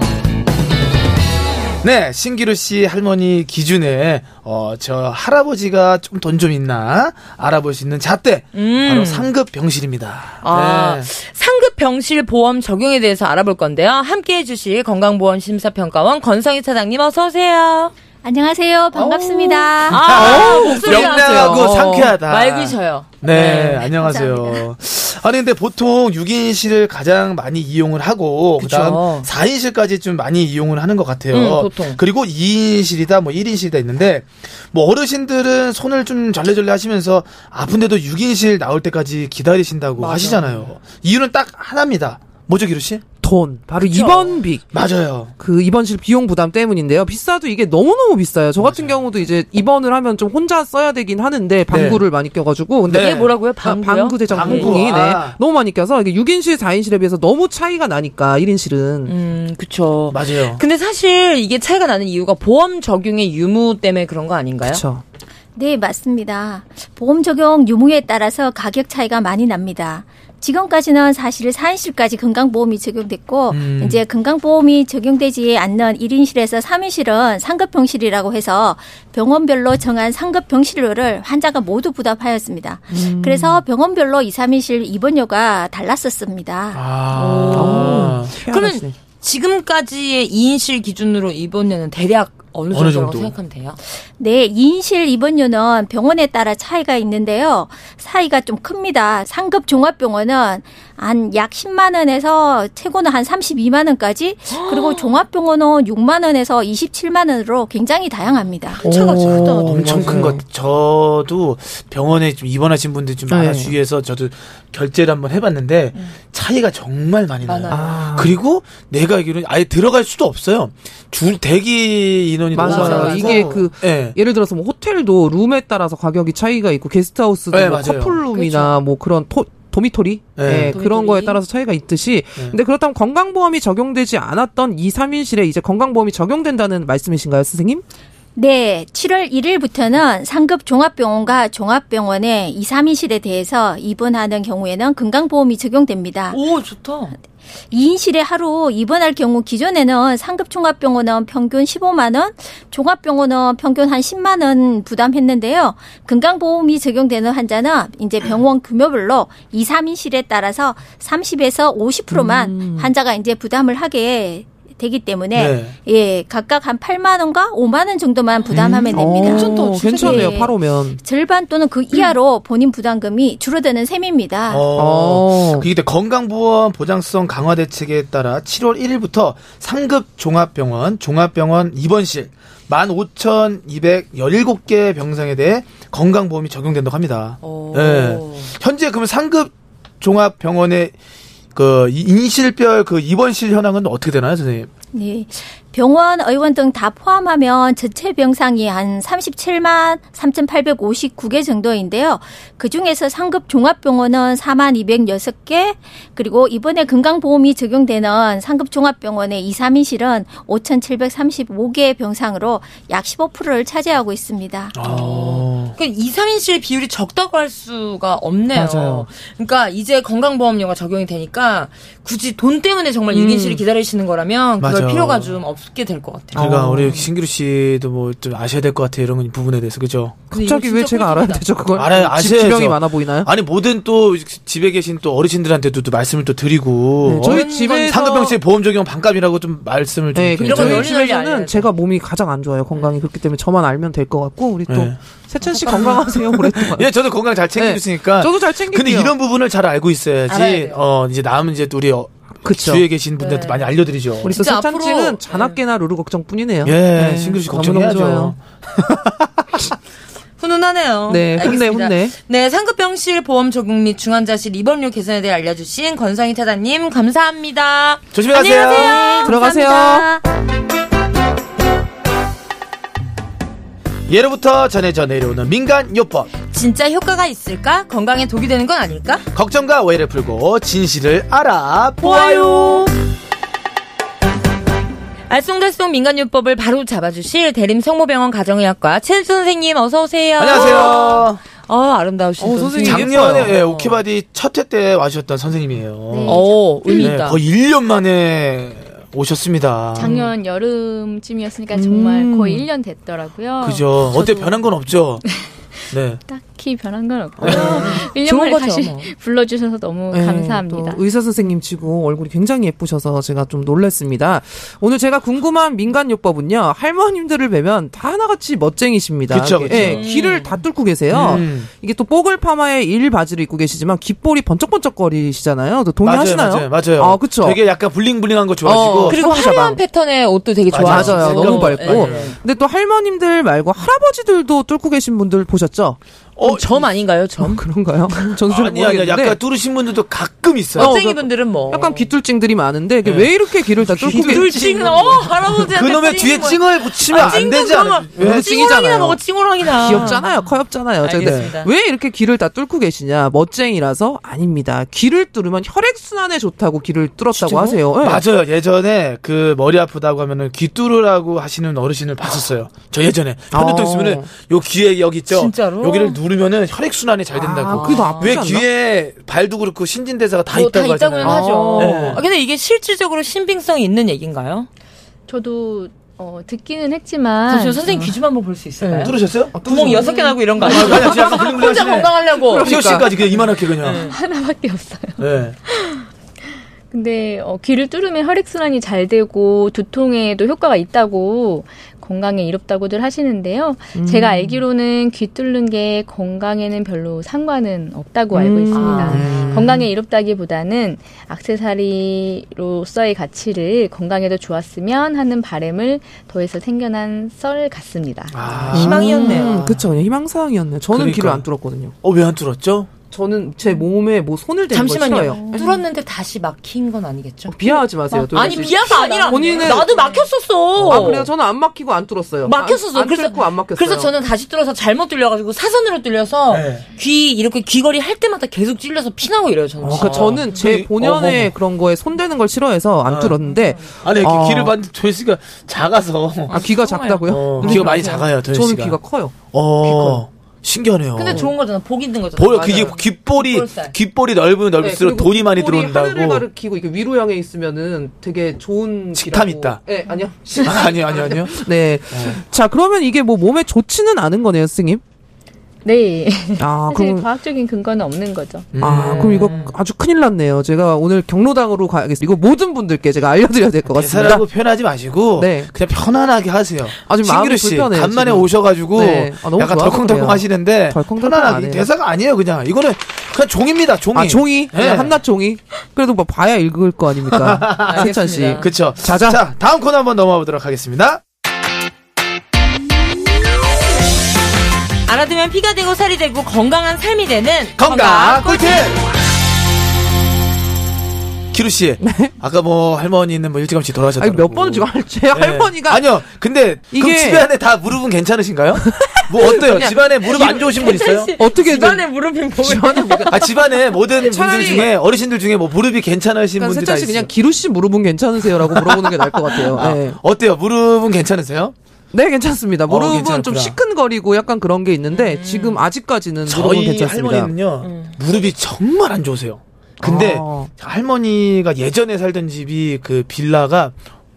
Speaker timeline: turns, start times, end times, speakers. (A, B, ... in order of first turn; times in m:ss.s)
0:01.8-0:11.1 A
0:08.6-0:09.3 B
0:10.4-0:17.9 B
0:18.2-0:21.3 C
0:19.0-0:23.9 B
0:19.9-0:43.0 A
0:20.1-0:22.1 D
0:23.6-0:24.7 C
0:28.6-0:29.3 B
0:31.3-0:32.0 B
0:40.0-0:40.7 B
0:43.2-0:44.6 D
0:43.8-0:44.4 B
0:44.7-0:45.3 A
0:45.4-0:59.1 D
0:48.6-0:49.0 A
0:51.7-0:52.0 A
0:52.9-0:53.3 A
0:52.9-0:54.8 B
0:54.3-0:55.4 A
0:59.1-1:04.8 B
1:00.1-1:00.6 A
1:04.6-1:05.0 D
1:05.6-1:26.8 C
1:13.5-1:14.0 A
1:22.9-1:23.6 D
1:26.7-1:28.3 A
1:27.1-1:33.8 B
1:27.5-1:28.9 D
1:32.7-1:33.4 A
1:34.2-1:48.8 C
1:44.5-1:45.2 B
1:48.7-1:50.3 B
1:48.8-1:50.4 D
1:49.4-2:04.2 A
1:53.3-1:53.8 D
1:57.4-1:58.0 B
1:57.7-1:58.4 D
2:02.5-2:17.8 D
2:02.6-2:03.6 B
2:07.5-2:08.3 A
2:08.3-2:08.8 B
2:10.4-2:10.8 A
2:10.7-2:11.4 B
2:18.4-2:26.4 C
2:26.3-2:27.2 B
2:27.7-2:54.7 C
2:42.1-2:42.9 D
2:45.4-2:45.7 A
2:48.5-2:49.0 A
2:48.9-2:51.0 D
2:54.5-3:11.0 A
2:54.7-2:55.7 D
3:07.4-3:08.5 B
3:11.6-3:14.7 A
3:14.9-3:34.8 C
3:34.7-3:35.8 A
3:34.8-3:46.5 B
3:38.5-3:39.1 A
3:43.1-3:43.6 D
3:44.6-3:45.4 A
3:46.4-3:47.1 D
3:46.4-3:50.2 A
3:50.3-3:53.3 D
3:50.3-3:51.5 B
3:51.7-4:00.9 A
3:57.1-3:58.1 D
3:57.2-3:58.4 B
4:00.2-4:06.9 D
4:00.4-4:01.7 B
4:04.7-4:05.0 A
4:05.4-4:06.0 B
4:05.7-4:14.3 A
4:07.6-4:09.1 D
4:10.3-4:10.8 B
4:12.4-4:12.9 D
4:13.2-4:15.6 B
4:14.2-4:18.3 D
4:16.6-4:19.6 A
4:20.4-4:30.2 B
4:21.1-4:22.2 D
4:28.1-4:29.2 A
4:29.2-4:30.2 D
4:34.1-4:36.3 A
4:36.4-4:39.2 B
4:39.3-4:42.9 A
4:42.0-4:42.9 B
4:45.3-4:54.0 B
4:50.4-4:51.4 A
4:52.4-4:53.6 D
4:52.8-4:56.5 A
4:56.1-4:57.2 E
4:56.3-4:57.4 B
4:57.0-5:00.2 A
5:00.0-5:04.7 E
5:01.7-5:02.7 D
5:03.6-5:05.2 A
5:05.9-5:06.2 A
5:06.3-5:11.0 E
5:07.4-5:08.1 A
5:07.4-5:09.1 B
5:10.1-5:27.6 D
5:19.3-5:20.1 A
5:19.7-5:20.6 B
5:21.1-5:21.7 A
5:26.0-5:29.2 A
5:28.7-5:29.8 D
5:29.1-5:32.4 B
5:30.7-5:32.3 A
5:30.8-5:36.0 D
5:36.4-5:36.9 A
5:36.4-5:37.6 B
5:37.4-5:39.4 D
5:38.5-5:41.0 A
5:40.8-5:42.1 B
5:40.8-5:45.6 D
5:43.0-5:44.7 A
5:43.9-5:50.3 B
5:45.7-5:48.6 A
5:48.2-5:58.2 D
5:51.0-5:51.7 B
5:51.2-5:51.5 A
5:57.4-5:57.8 B
5:58.0-6:12.2 A
6:03.5-6:04.3 D
6:05.3-6:06.2 B
6:07.3-6:08.7 D
6:07.7-6:08.5 B
6:10.5-6:14.7 B
6:11.2-6:12.2 D
6:15.3-6:18.1 E
6:17.5-6:24.2 B
6:18.9-6:19.6 A
6:19.5-6:20.1 D
6:19.7-6:20.9 E
6:20.6-6:24.0 A
6:20.6-6:21.4 D
6:22.5-6:23.1 D
6:23.6-6:26.1 E
6:25.2-6:25.6 A
6:26.9-6:48.7 E
6:34.0-6:34.6 D
6:38.3-6:39.3 D
6:38.7-6:39.7 B
6:39.1-6:39.8 A
6:48.3-6:49.7 A
6:48.5-6:51.9 D
6:48.7-6:49.7 B
6:50.9-6:51.5 A
6:52.0-6:52.9 A
6:53.1-6:55.7 D
6:54.7-7:01.3 B
6:57.5-6:59.9 D
6:58.1-7:00.3 E
7:00.8-7:04.1 D
7:02.4-7:10.5 B
7:06.5-7:06.9 A
7:09.8-7:14.7 D
7:09.9-7:11.6 A
7:13.1-7:13.4 A
7:14.0-7:16.6 A
7:16.5-7:18.3 B
7:16.5-7:19.4 D
7:17.3-7:19.0 A
7:19.5-7:21.5 A
7:19.8-7:20.2 B
7:21.2-7:24.0 B
7:22.4-7:26.4 A
7:22.6-7:23.0 D
7:24.8-7:35.0 D
7:29.1-7:29.8 A
7:30.6-7:32.4 A
7:35.8-7:38.7 E
7:36.6-7:37.3 D
7:38.7-7:39.6 A
7:38.8-7:44.5 D
7:39.2-7:39.7 B
7:43.9-7:55.2 A
7:45.4-7:45.7 D
7:47.1-7:51.9 D
7:54.2-7:59.4 D
7:57.3-8:01.2 A
7:57.8-7:58.8 B
8:05.1-8:09.0 B
8:07.8-8:09.1 A
8:11.5-8:21.3 A
8:12.0-8:12.3 D
8:14.2-8:16.0 D
8:16.9-8:17.4 D
8:18.8-8:20.8 D
8:20.3-8:23.5 B
8:21.4-8:23.5 D
8:23.3-8:27.3 A
8:24.2-8:24.9 D
8:26.6-8:30.2 D
8:28.6-8:31.8 A
8:32.1-8:37.5 D
8:32.9-8:33.8 A
8:35.1-8:35.8 B
8:36.5-8:44.0 A
8:37.8-8:38.2 B
8:40.0-8:40.7 D